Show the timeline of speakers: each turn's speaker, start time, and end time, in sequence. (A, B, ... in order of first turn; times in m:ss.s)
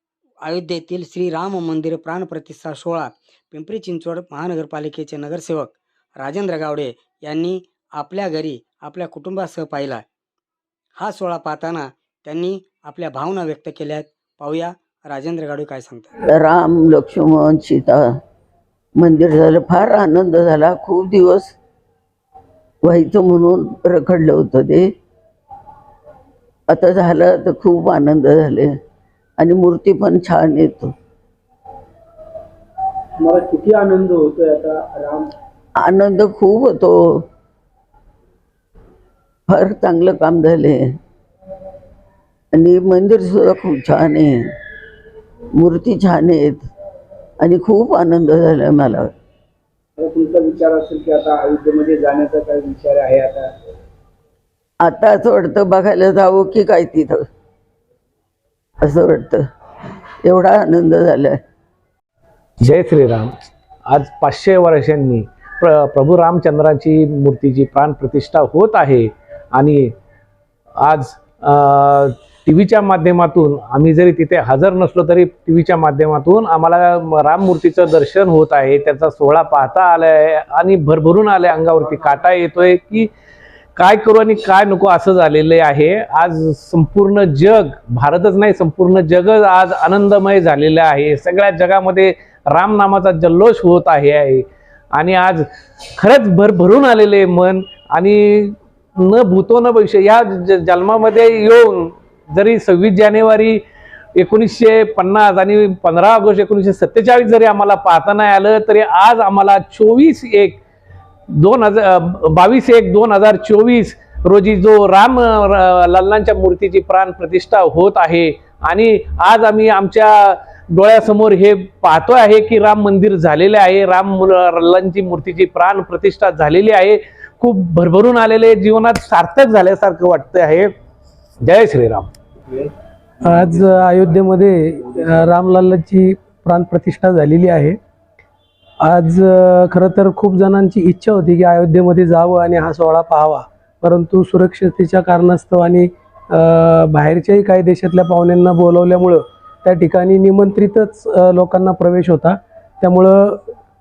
0:00.5-0:10.0 A
0:11.0-0:16.1 A
0:16.3-0:18.1 B
0:19.0-0:21.5 B
0:22.8-0:24.9 B
0:26.7-0:28.7 B
0:29.4-0:30.9 B
0:33.2-0:35.3 C
0:35.8-0:37.2 B
0:39.5-0:41.0 B
0:42.5-0:44.4 B
0:45.6-0:46.7 B
0:47.4-0:49.1 B
0:50.0-0:53.5 C
0:54.8-0:57.2 B
0:58.8-0:59.4 B
1:00.2-1:01.4 B
1:02.6-1:03.3 D
1:03.9-1:09.9 D
1:10.8-1:23.1 D
1:23.8-1:35.4 D
1:36.0-1:43.6 D
1:44.2-1:50.6 D
1:51.4-2:10.7 D
2:11.4-2:12.1 D
2:13.2-2:17.8 E
2:18.8-2:33.4 E